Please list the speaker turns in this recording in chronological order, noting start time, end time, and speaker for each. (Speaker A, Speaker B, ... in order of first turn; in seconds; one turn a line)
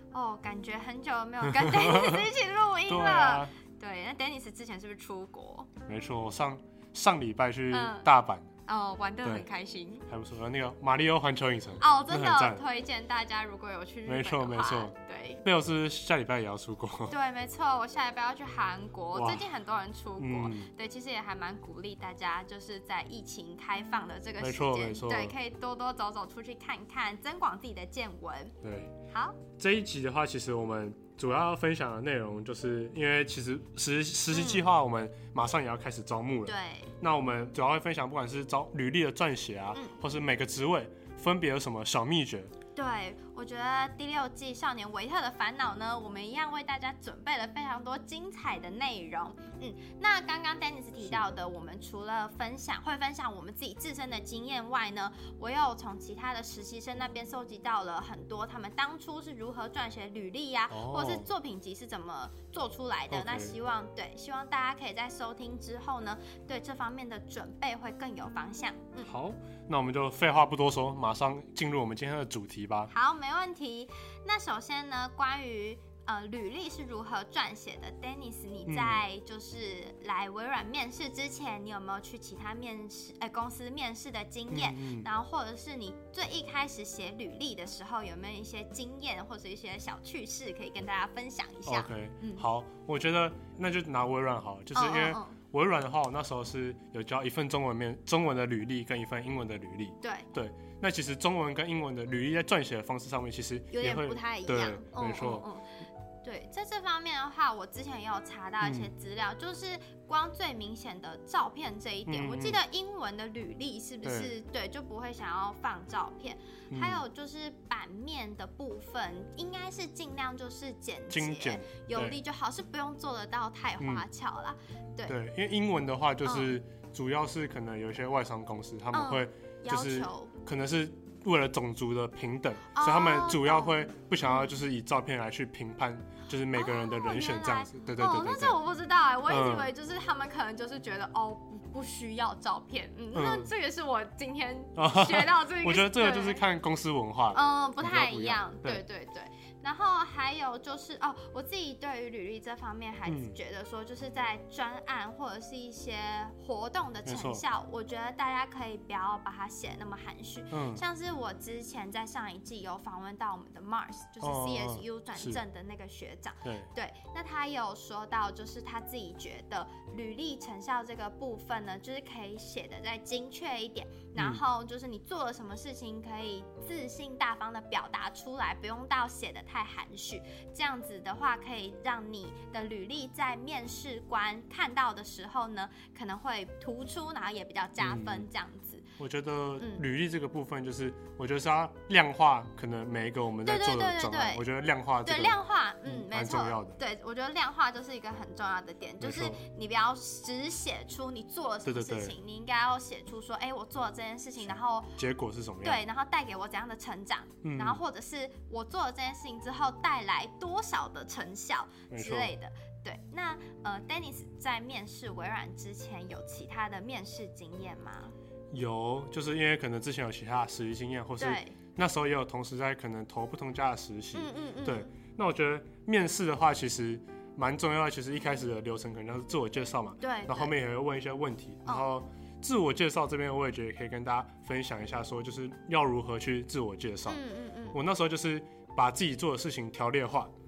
Speaker A: 0.1-5.7
Speaker B: 1.4-2.3
Speaker B: 2.9-3.5
Speaker B: 5.9-8.5
Speaker A: 7.7-8.1
Speaker A: 8.7-10.1
Speaker B: 10.1-12.6
Speaker A: 11.8-15.4
Speaker B: 14.1-17.1
Speaker A: 17.1-28.5
Speaker B: 19.1-19.5
Speaker B: 20.2-20.7
Speaker B: 24.4-25.3
Speaker B: 28.6-28.9
Speaker A: 29.1-29.4
Speaker B: 29.6-42.5
Speaker A: 34.3-34.7
Speaker A: 36.5-36.9
Speaker A: 42.7-69.1
Speaker B: 60.7-61.3
Speaker B: 63.1-63.5
Speaker B: 69.0-72.9
Speaker A: 72.9-92.5
Speaker B: 78.7-79.0
Speaker B: 84.5-85.1
Speaker B: 91.7-105.5
Speaker A: 94.7-95.4
Speaker A: 100.0-100.3
Speaker A: 103.7-105.7
Speaker A: 106.2-125.2
Speaker B: 108.6-108.9
Speaker B: 112.1-112.6
Speaker B: 114.0-114.3
Speaker B: 116.7-117.0
Speaker B: 121.1-122.2
Speaker B: 123.8-124.1
Speaker B: 125.0-138.6
Speaker A: 126.2-126.5
Speaker A: 128.9-130.3
Speaker A: 132.7-134.5
Speaker A: 136.5-146.4
Speaker B: 139.3-139.7
Speaker B: 143.1-143.5
Speaker B: 144.8-148.8
Speaker A: 147.3-188.9
Speaker B: 153.1-153.3
Speaker B: 157.1-157.4
Speaker B: 160.5-160.8
Speaker B: 164.2-165.4
Speaker B: 166.4-166.7
Speaker B: 174.2-174.4
Speaker B: 187.8-188.3
Speaker B: 189.0-196.8
Speaker A: 193.4-194.4
Speaker A: 195.0-205.0
Speaker B: 199.0-199.4
Speaker B: 201.6-202.2
Speaker B: 205.0-205.8
Speaker A: 205.6-218.1
Speaker B: 207.4-207.8
Speaker B: 211.9-212.3
Speaker B: 218.5-237.2
Speaker A: 221.2-221.6
Speaker A: 224.1-224.9
Speaker A: 230.0-230.5
Speaker A: 237.1-237.8
Speaker B: 237.7-240.3